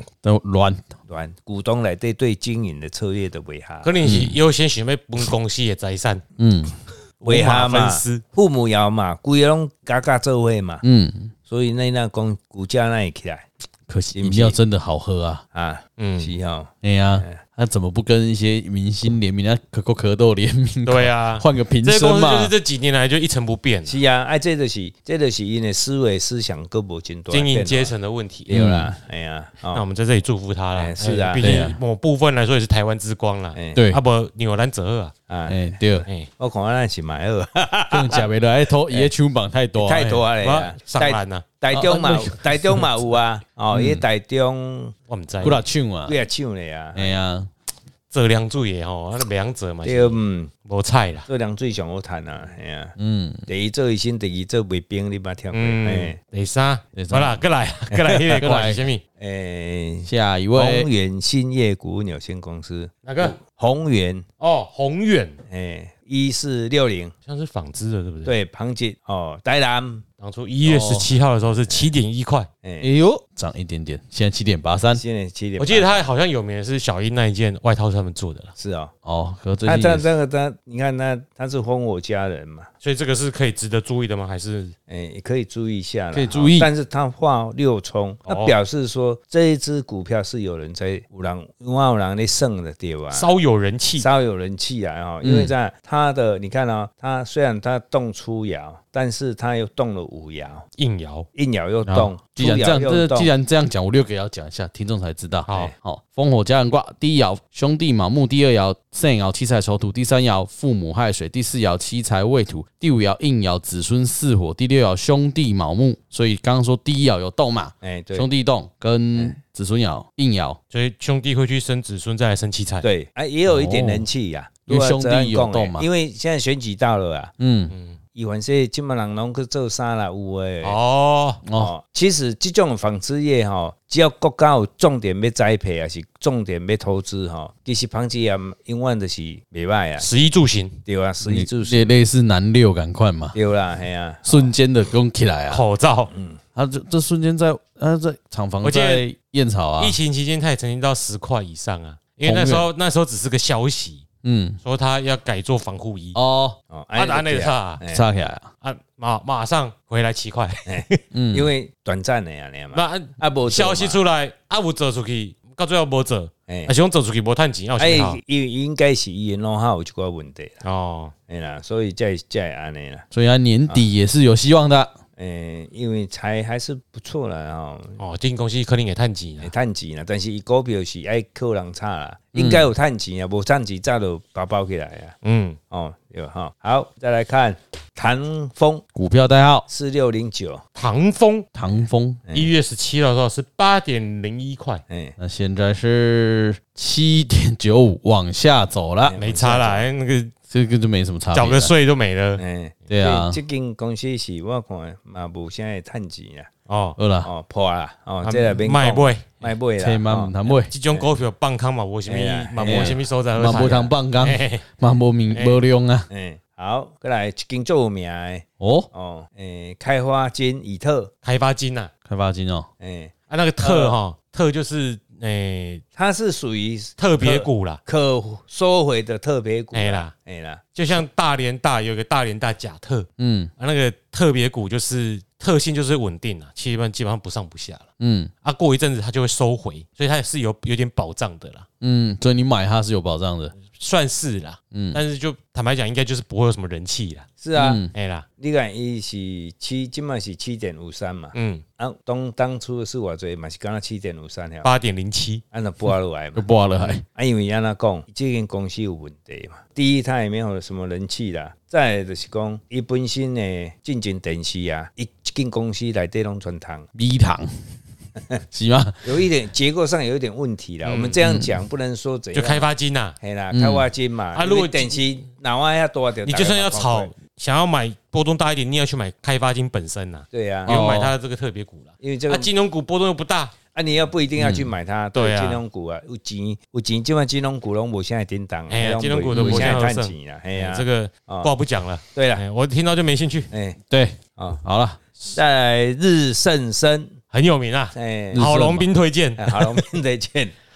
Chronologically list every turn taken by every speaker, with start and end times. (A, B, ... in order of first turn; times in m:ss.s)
0:00.2-0:00.9 A
0:01.1-0:03.9 B
0:03.8-0:06.2 C
0:04.0-0:04.4 A
0:06.4-0:06.7 A
0:07.2-0:08.2 C
0:07.2-0:10.8 B
0:10.8-0:11.3 A
0:11.5-0:13.4 B
0:13.9-0:15.4 A
0:14.1-0:14.6 B
0:15.5-0:17.4 B
0:16.0-0:16.3 C
0:16.8-0:22.5 A
0:20.8-0:24.0 C
0:23.8-0:27.9 B
0:27.3-0:28.5 C
0:28.5-0:29.8 B
0:28.5-0:28.9 A
0:29.7-0:35.1 C
0:30.8-0:31.6 B
0:31.4-0:31.8 A
0:33.5-0:33.8 B
0:33.7-0:34.0 A
0:35.3-0:38.3 B
0:35.5-0:36.0 A
0:37.9-0:40.2 A
0:39.8-0:44.9 B
0:40.4-0:41.4 C
0:41.7-0:42.9 A
0:43.7-0:44.0 A
0:45.1-0:45.6 C
0:45.4-0:46.2 A
0:46.0-0:47.2 B
0:46.9-0:47.5 A
0:48.1-0:51.3 C
0:49.8-0:50.5 B
0:51.3-0:52.9 B
0:53.0-0:53.4 A
0:53.5-0:56.2 B
0:55.5-0:59.0 C
0:57.0-0:57.4 A
0:57.9-0:58.4 B
0:58.4-0:58.8 A
0:59.2-1:04.2 B
1:00.0-1:00.9 A
1:03.0-1:03.4 C
1:04.4-1:05.4 C
1:05.5-1:07.1 B
1:07.2-1:08.3 C
1:08.2-1:10.0 B
1:10.2-1:12.5 C
1:10.6-1:11.2 A
1:12.6-1:12.9 B
1:12.8-1:15.0 A
1:14.9-1:16.0 B
1:15.6-1:18.5 C
1:18.6-1:18.9 B
1:19.0-1:20.1 A
1:19.6-1:22.7 B
1:22.8-1:24.7 C
1:24.9-1:33.3 B
1:26.1-1:26.7 A
1:28.3-1:28.5 C
1:33.1-1:34.1 C
1:34.0-1:40.6 B
1:35.2-1:35.5 A
1:40.8-1:41.3 C
1:41.3-1:43.3 B
1:41.9-2:00.6 A
1:45.5-1:45.7 C
1:57.8-1:58.3 B
2:00.7-2:02.9 C
2:02.8-2:07.3 B
2:03.5-2:04.1 A
2:04.7-2:05.8 A
2:07.4-2:07.7 A
2:07.7-2:08.0 C
2:08.1-2:10.8 B
2:10.6-2:11.4 C
2:11.4-2:11.7 A
2:11.6-2:20.1 B
2:20.0-2:20.8 C
2:20.8-2:21.8 B
2:21.2-2:23.4 A
2:23.3-2:24.5 B
2:24.2-2:25.6 A
2:25.5-2:26.1 C
2:26.1-2:26.4 B
2:26.6-2:30.0 A
2:28.6-2:29.0 C
2:29.8-2:34.0 C
2:32.2-2:32.7 A
2:34.2-2:34.6 A
2:34.6-2:36.2 C
2:36.1-2:36.6 A
2:36.7-2:38.1 B
2:37.0-2:37.8 C
2:37.9-2:38.5 A
2:38.6-2:41.0 C
2:40.6-2:44.0 B
2:41.1-2:41.5 A
2:42.7-2:48.2 C
2:46.5-2:46.7 B
2:47.8-2:50.6 B
2:50.6-2:51.1 C
2:51.3-2:53.0 B
2:53.1-2:55.0 A
2:55.2-2:58.0 B
2:58.0-2:59.5 C
2:59.4-3:05.1 B
3:02.3-3:02.7 A
3:05.2-3:05.6 C
3:05.7-3:08.8 B
3:08.9-3:09.6 A
3:09.7-3:10.6 B
3:10.8-3:11.5 C
3:11.5-3:12.2 A
3:12.3-3:12.5 B
3:12.3-3:14.8 C
3:14.9-3:15.1 B
3:15.2-3:19.2 A
3:19.0-3:19.8 B
3:19.2-3:20.3 C
3:20.5-3:21.7 A
3:21.3-3:22.4 C
3:22.4-3:26.5 B
3:22.9-3:23.4 A
3:26.7-3:27.0 C
3:27.0-3:27.3 A
3:27.2-3:30.3 B
3:28.2-3:29.5 C
3:29.8-3:30.7 A
3:30.7-3:34.6 C
3:32.1-3:33.9 B
3:32.6-3:36.1 A
3:35.3-3:35.6 C
3:36.1-3:41.1 B
3:38.6-3:38.9 A
3:41.2-3:41.9 C
3:42.0-3:42.7 A
3:42.8-3:44.0 B
3:43.3-3:45.8 C
3:46.0-3:50.7 B
3:47.0-3:47.8 C
3:49.7-3:50.1 C
3:50.7-3:53.1 C
3:53.2-3:53.5 A
3:53.6-3:57.9 C
3:58.0-3:58.3 A
3:58.4-4:01.6 C
4:01.8-4:03.5 A
4:03.6-4:07.3 C
4:04.7-4:05.0 A
4:07.4-4:07.8 B
4:07.5-4:07.9 A
4:07.9-4:08.2 C
4:08.4-4:14.7 B
4:11.3-4:11.6 C
4:14.6-4:15.4 C
4:15.5-4:26.9 B
4:16.3-4:17.0 A
4:26.9-4:27.5 A
4:28.5-4:29.2 A
4:29.0-4:32.7 B
4:30.8-4:31.2 C
4:31.2-4:31.5 A
4:32.3-4:33.2 C
4:33.2-4:37.1 B
4:33.5-4:33.8 A
4:34.3-4:35.0 C
4:36.2-4:43.5 C
4:40.3-4:40.8 B
4:40.7-4:41.1 A
4:42.0-4:42.5 B
4:43.7-4:51.5 B
4:44.4-4:44.7 A
4:45.1-4:45.6 C
4:48.7-4:53.5 C
4:49.3-4:49.8 A
4:52.1-4:52.4 B
4:53.5-4:53.8 B
4:53.9-4:55.4 A
4:55.3-4:57.2 B
4:57.3-4:59.9 C
4:57.9-4:58.5 B
4:58.3-4:58.8 A
4:59.4-5:00.5 B